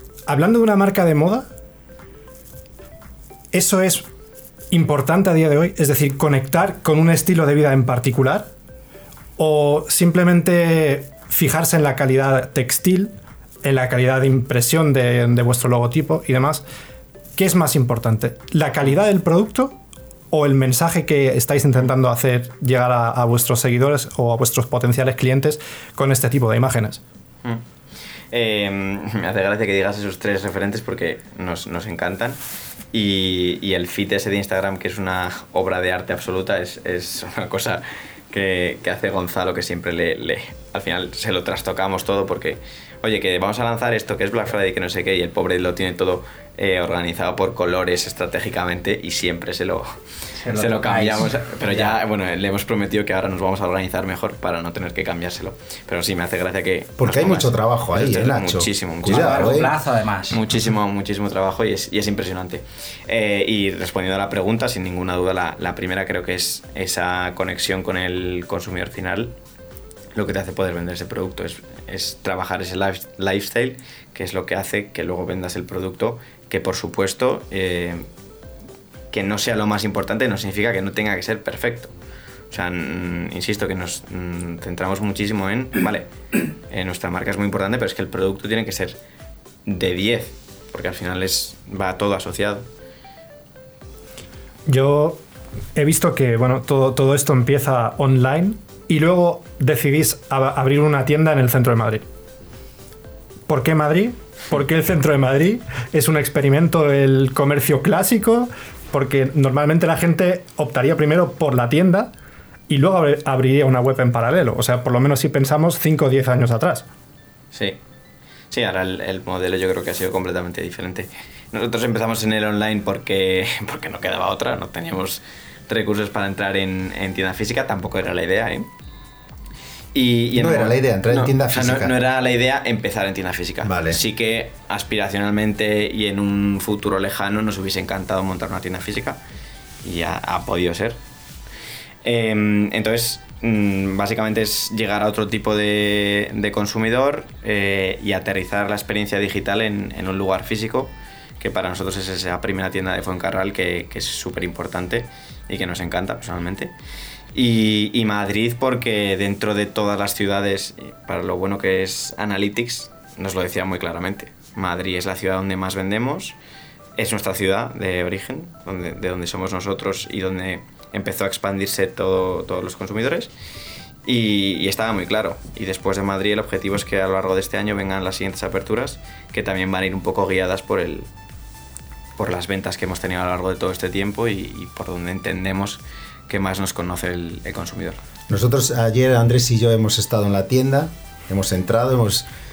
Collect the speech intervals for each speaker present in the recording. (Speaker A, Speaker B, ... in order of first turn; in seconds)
Speaker A: 0.3-1.5, 3.5-4.0, 4.7-8.5, 9.4-13.1, 13.6-16.6, 17.4-19.7, 20.3-27.0, 94.7-95.2, 95.7-102.0, 103.5-112.1, 112.7-116.8
Speaker B: 28.3-32.4, 32.9-50.0, 50.5-59.7, 60.3-69.3, 70.1-78.1, 79.1-81.9, 82.5-86.1, 86.7-89.0, 89.7-92.6, 117.5-117.8, 118.5-128.7, 129.9-139.2, 139.8-141.0, 142.0-156.7, 157.3-166.4, 166.9-173.3, 174.0-181.1, 182.2-188.0
Speaker C: 50.4-51.9, 59.1-60.4
Speaker D: 57.0-59.7, 130.3-131.9, 133.6-134.0, 188.3-192.2